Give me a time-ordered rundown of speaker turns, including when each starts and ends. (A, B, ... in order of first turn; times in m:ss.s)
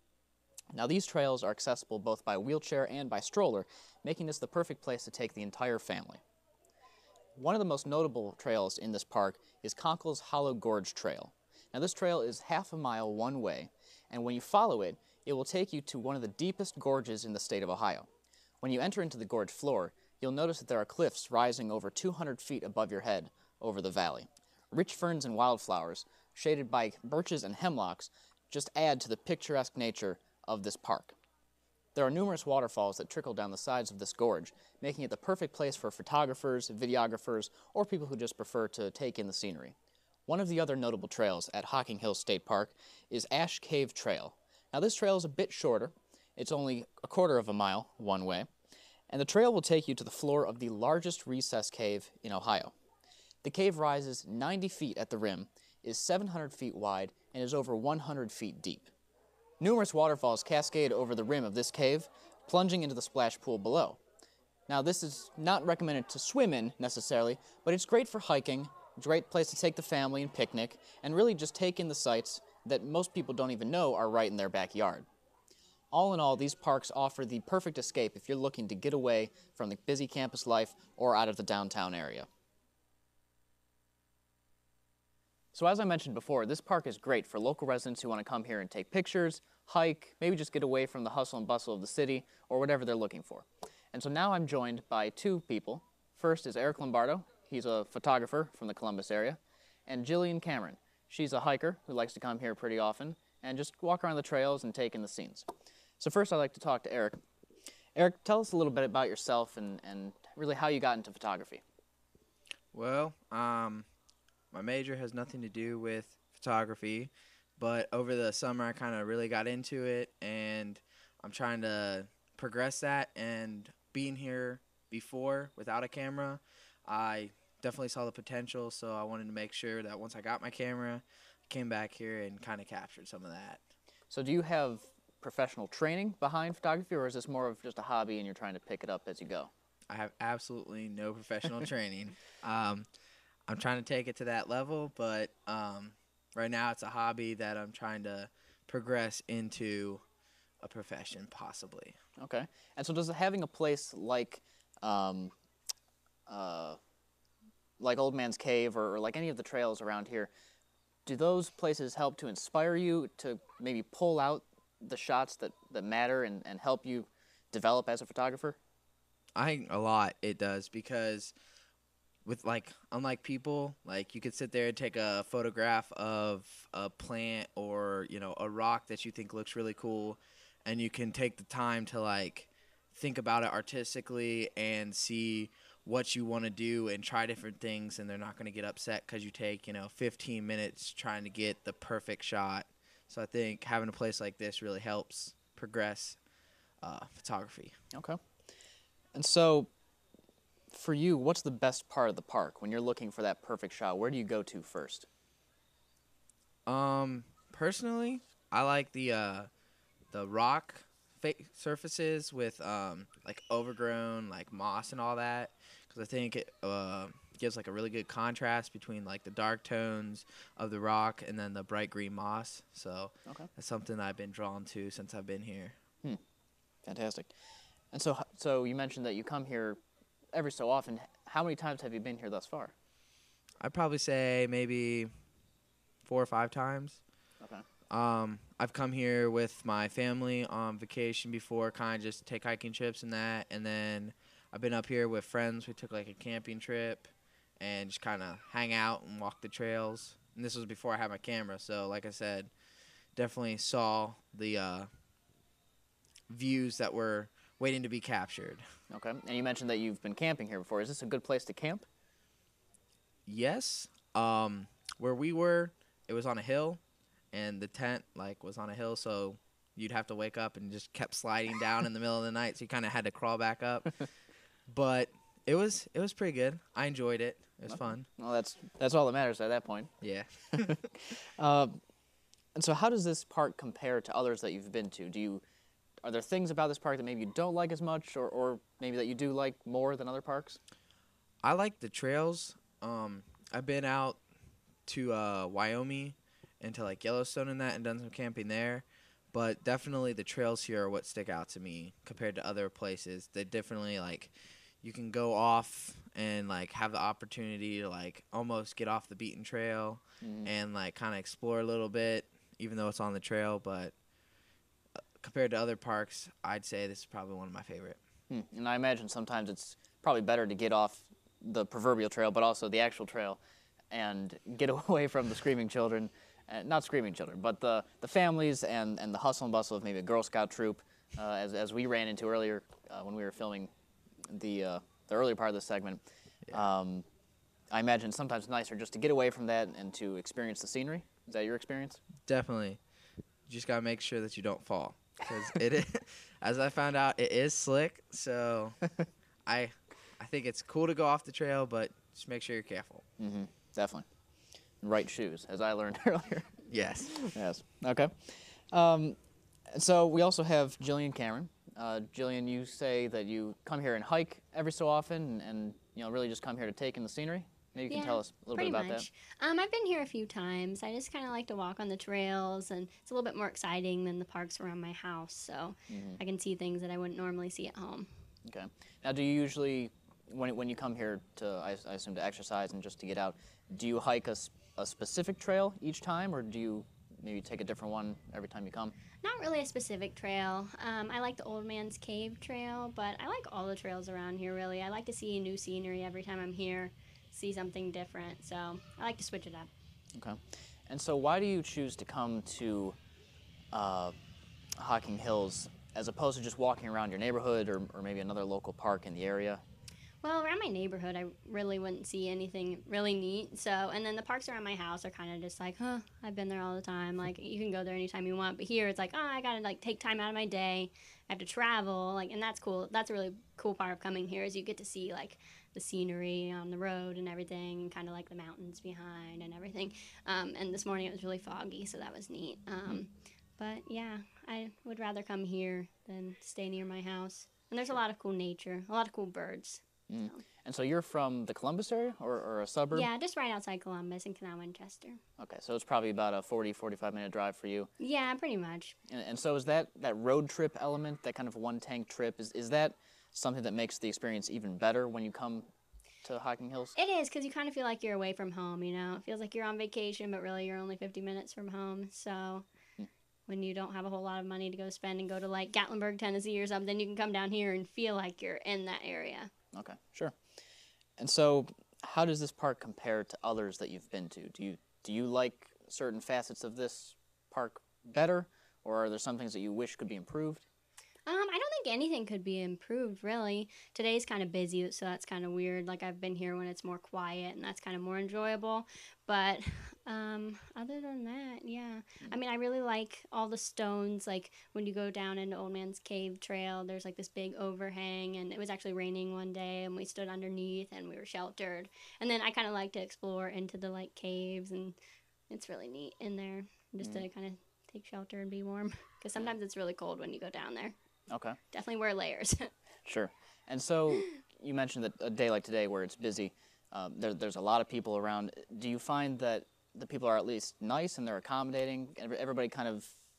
0:00.7-0:06.2 A
0:07.4-0:18.1 A
0:18.6-0:31.1 A
0:31.9-0:39.7 A
0:40.3-0:48.5 A
0:49.1-0:52.7 A
0:53.4-0:58.9 A
0:59.6-1:04.0 A
1:04.7-1:15.1 A
1:15.9-1:22.3 A
1:25.5-1:45.5 A
1:46.0-1:47.2 A
1:48.0-1:51.6 A
1:52.7-1:53.9 B
1:54.5-2:13.6 B
2:14.1-2:19.5 A
2:19.9-2:22.9 B
2:23.5-2:30.0 B
2:30.6-2:32.0 B
2:32.2-2:35.3 A
2:36.3-2:36.8 A
2:37.8-2:40.3 A
2:41.0-2:48.6 A
2:49.3-2:51.3 B
2:52.2-3:16.2 B
3:16.8-3:17.8 B
3:17.9-3:18.2 A
3:19.1-3:19.7 A
3:20.7-3:25.1 A
3:26.6-3:29.5 B
3:30.1-3:45.8 B
3:46.8-3:47.3 A
3:47.9-3:49.8 A
3:50.3-3:52.7 A
3:53.6-3:55.1 B
3:56.0-3:57.0 B
3:57.9-4:12.5 B
4:13.1-4:14.9 B
4:16.3-4:18.6 B
4:18.9-4:21.8 A
4:23.2-4:26.8 B
4:27.3-4:33.9 B
4:34.7-4:38.0 B
4:37.7-4:39.9 A
4:40.0-4:40.7 B
4:40.6-4:41.8 A
4:42.5-4:45.4 A
4:46.0-4:50.6 A
4:51.4-4:54.2 B
4:54.8-5:13.9 B
5:10.2-5:10.5 A
5:15.2-5:18.0 B
5:18.3-5:23.4 A
5:23.9-5:33.7 A
5:34.3-5:36.0 A
5:36.5-5:37.0 A
5:37.7-5:42.0 A
5:42.2-5:42.8 B
5:43.5-5:48.8 B
5:49.4-5:53.0 B
5:53.2-5:54.0 A
5:54.8-5:56.5 A
5:56.7-5:57.3 B
5:57.2-5:59.2 A
5:59.7-6:09.0 A
6:07.9-6:18.1 C
6:15.9-6:16.2 A
6:18.4-6:28.9 A
6:29.2-6:39.7 C
6:40.9-6:43.0 A
6:43.7-6:44.1 A
6:44.8-6:49.6 A
6:50.2-7:20.4 C
7:20.1-7:23.1 A
7:22.9-7:25.2 C
7:25.4-7:27.9 A
7:28.0-7:28.9 C
7:29.1-7:35.7 A
7:36.2-7:36.9 A
7:37.0-7:42.6 C
7:43.5-7:49.5 C
7:49.7-7:50.3 A
7:51.2-8:00.6 A
8:01.2-8:25.0 C
8:25.5-8:30.9 C
8:31.3-8:31.6 A
8:31.7-8:32.7 C
8:33.0-8:43.1 A